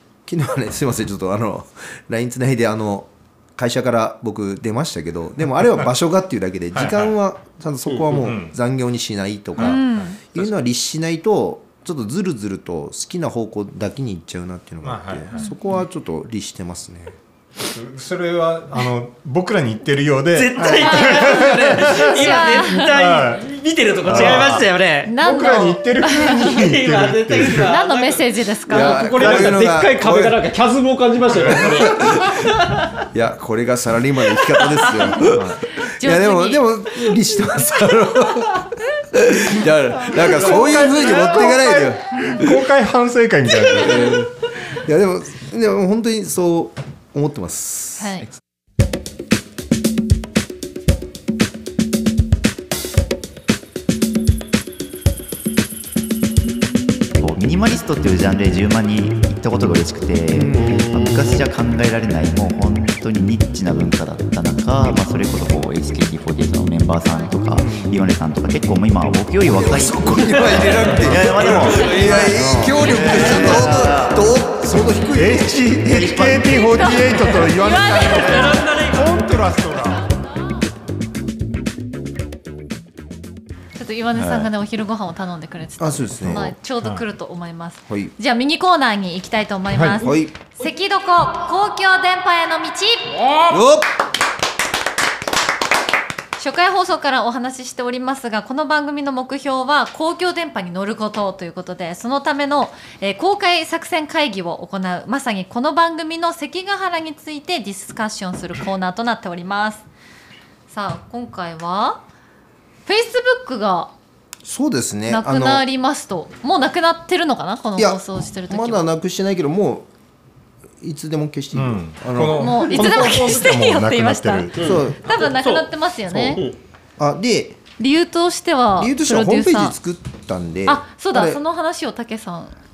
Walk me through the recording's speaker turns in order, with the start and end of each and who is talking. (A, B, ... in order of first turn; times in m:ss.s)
0:00.3-0:17.2 A
0:06.7-0:07.1 B
0:07.9-0:08.2 C
0:08.2-0:08.6 B
0:09.6-0:10.5 B
0:09.6-0:10.2 D
0:14.8-0:15.5 B
0:17.6-0:23.5 B
0:20.3-0:25.2 C
0:20.6-0:21.0 A
0:20.8-0:21.5 D
0:22.0-0:22.9 D
0:24.0-0:24.7 B
0:25.1-0:26.6 D
0:25.2-0:27.7 B
0:26.3-0:32.9 C
0:27.5-0:29.1 D
0:28.7-0:30.4 A
0:29.2-0:29.5 B
0:31.4-0:32.0 B
0:31.5-0:32.4 A
0:33.1-0:42.6 A
0:34.4-0:35.1 C
0:35.2-0:35.6 B
0:35.7-0:36.6 D
0:40.0-0:44.3 B
0:42.1-0:42.5 D
0:43.7-0:48.2 A
0:48.0-0:48.3 D
0:57.1-1:14.3 E
1:00.3-1:00.9 A
1:00.6-1:01.5 C
1:07.1-1:07.4 D
1:07.6-1:08.0 A
1:09.5-1:16.6 A
1:10.2-1:13.7 C
1:13.0-1:13.4 B
1:15.1-1:20.1 B
1:16.5-1:18.7 D
1:18.0-1:19.2 C
1:19.9-1:20.3 D
1:23.8-1:33.2 D
1:24.2-1:24.5 E
1:25.8-1:26.6 A
1:27.9-1:28.1 A
1:29.7-1:30.0 B
1:30.0-1:30.4 A
1:33.1-1:33.6 C
1:33.5-1:33.9 A
1:36.4-1:49.9 D
1:50.7-1:52.0 D
1:52.9-1:53.9 D
1:54.4-1:55.6 A
1:55.1-1:58.9 D
1:57.8-1:59.9 A
2:00.8-2:03.1 A
2:01.5-2:04.8 B
2:02.3-2:06.4 D
2:04.6-2:06.6 C
2:04.6-2:05.0 A
2:06.1-2:06.4 A
2:07.0-2:07.6 A
2:07.8-2:09.8 D
2:08.8-2:11.4 A
2:10.7-2:12.6 D